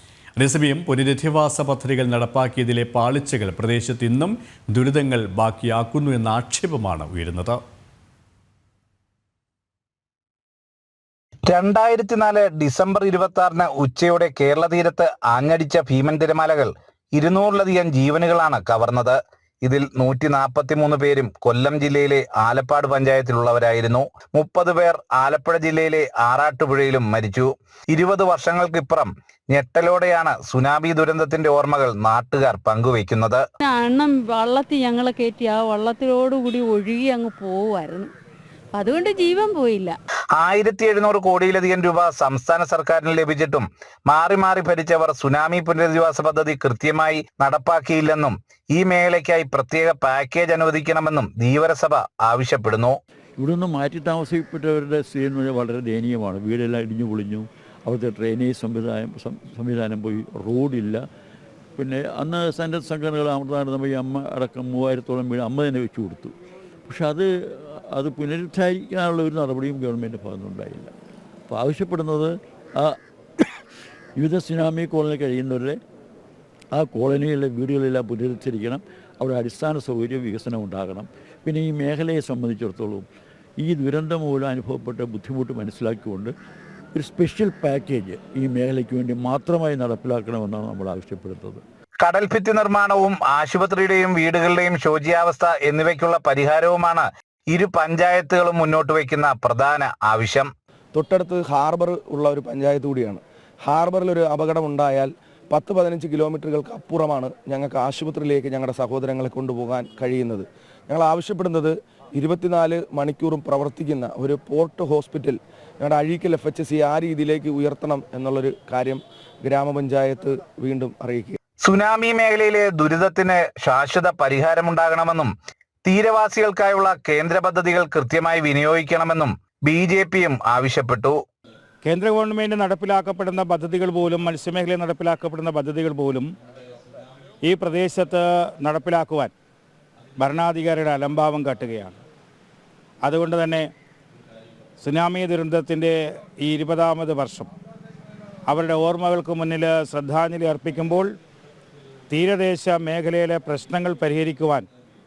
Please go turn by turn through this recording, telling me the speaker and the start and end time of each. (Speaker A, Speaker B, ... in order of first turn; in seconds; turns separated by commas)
Speaker A: 0.4-7.6, Speaker B: 11.5-33.4, Speaker C: 33.6-38.1, Speaker C: 38.7-39.9, Speaker B: 40.4-52.9, Speaker D: 53.4-61.0, Speaker D: 61.8-66.3, Speaker D: 66.9-70.9, Speaker D: 71.5-73.4, Speaker D: 74.2-75.8, Speaker D: 76.7-83.0, Speaker D: 83.6-86.3, Speaker D: 86.9-91.6, Speaker B: 92.0-100.5, Speaker E: 100.9-121.4, Speaker B: 121.6-125.3, Speaker B: 125.8-131.2, Speaker F: 131.8-136.3, Speaker F: 137.4-139.3, Speaker F: 140.2-142.0, Speaker F: 143.0-143.7, Speaker F: 144.8-147.5, Speaker F: 148.5-151.1, Speaker F: 152.1-154.7